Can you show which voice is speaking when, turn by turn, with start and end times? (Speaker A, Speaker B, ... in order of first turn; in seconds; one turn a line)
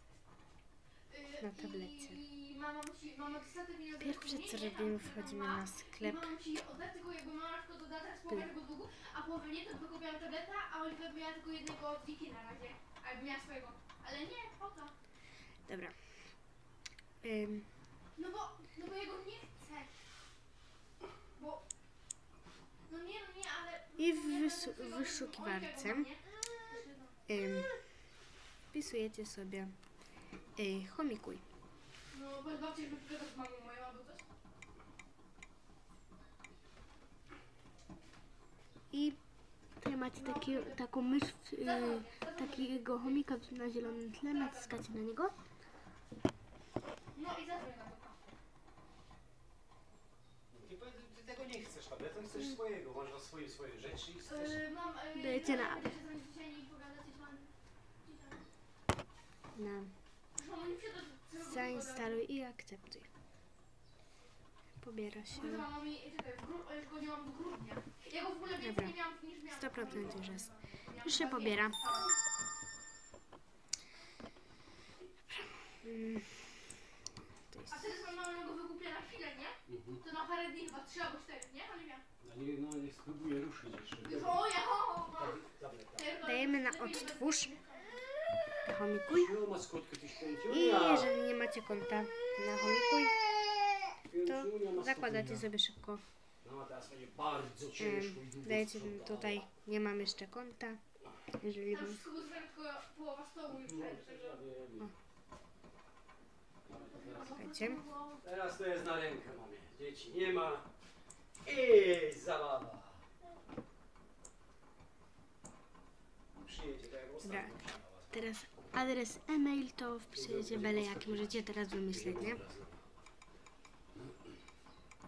Speaker A: 1.1-14.9
Speaker B: 1.4-2.2
Speaker B: 4.0-6.3
Speaker B: 15.7-15.9
Speaker B: 17.2-17.7
Speaker A: 18.1-19.9
Speaker A: 21.3-21.6
Speaker A: 22.9-27.2
Speaker B: 24.0-26.1
Speaker B: 27.3-27.7
Speaker B: 28.7-29.7
Speaker B: 30.6-31.4
Speaker A: 32.1-34.2
Speaker B: 38.9-39.2
Speaker B: 39.8-45.3
Speaker A: 40.1-40.8
Speaker A: 41.6-44.8
Speaker A: 47.1-48.3
Speaker C: 50.5-54.6
Speaker A: 54.2-57.5
Speaker B: 55.1-55.9
Speaker A: 58.0-58.4
Speaker B: 59.5-59.9
Speaker A: 60.4-62.2
Speaker B: 61.4-63.1
Speaker B: 64.8-65.7
Speaker A: 65.3-72.2
Speaker B: 68.6-70.5
Speaker B: 71.0-71.8
Speaker B: 75.8-76.6
Speaker B: 77.5-78.0
Speaker A: 77.7-82.0
Speaker C: 79.7-80.0
Speaker C: 82.2-84.5
Speaker A: 84.0-87.8
Speaker C: 85.1-86.1
Speaker B: 86.2-87.5
Speaker B: 88.6-89.3
Speaker C: 89.1-91.1
Speaker B: 90.4-93.2
Speaker C: 94.1-95.5
Speaker B: 94.2-96.0
Speaker C: 96.4-99.4
Speaker B: 97.8-100.8
Speaker B: 101.4-102.0
Speaker A: 101.7-104.4
Speaker C: 103.5-104.9
Speaker C: 106.6-107.4
Speaker A: 107.0-108.2
Speaker B: 107.3-107.8
Speaker C: 108.2-110.7
Speaker C: 111.4-113.0
Speaker C: 116.3-118.2
Speaker B: 117.2-122.4
Speaker C: 120.1-123.0
Speaker C: 123.9-124.4